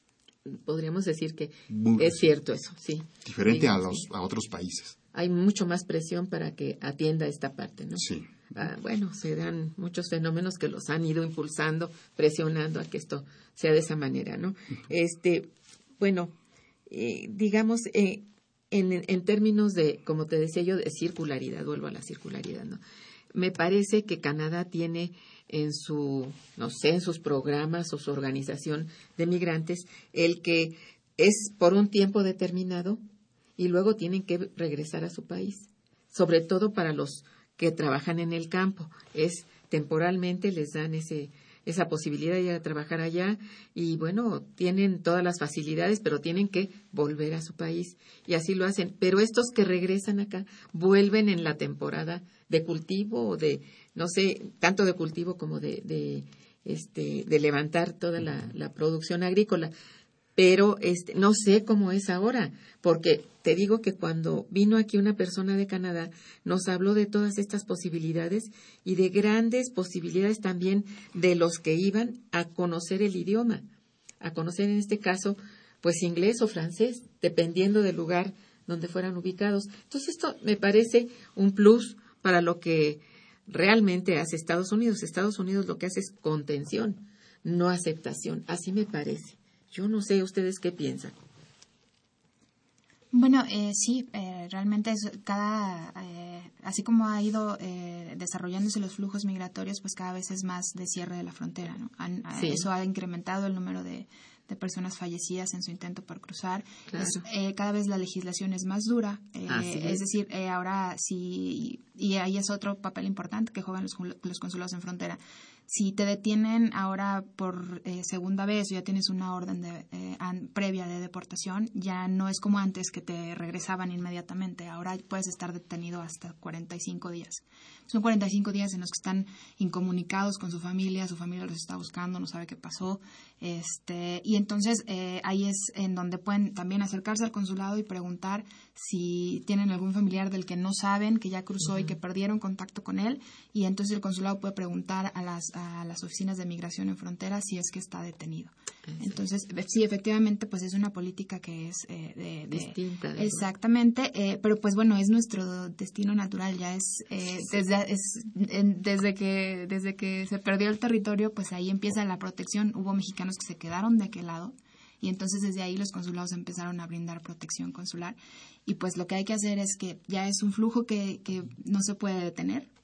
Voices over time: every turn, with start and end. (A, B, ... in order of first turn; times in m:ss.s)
0:00.4-0:04.0 A
0:01.7-0:02.3 B
0:03.2-0:05.0 B
0:05.1-0:16.3 A
0:08.0-0:08.7 B
0:16.9-0:22.8 A
0:23.3-0:33.0 A
0:33.6-0:59.7 A
1:00.4-1:13.6 A
1:14.2-1:31.1 A
1:33.1-2:52.7 C
1:42.3-1:42.7 A
1:46.9-1:47.2 A
1:49.5-1:50.0 A
2:21.6-2:21.9 A
2:28.9-2:29.2 A
2:32.5-2:33.4 A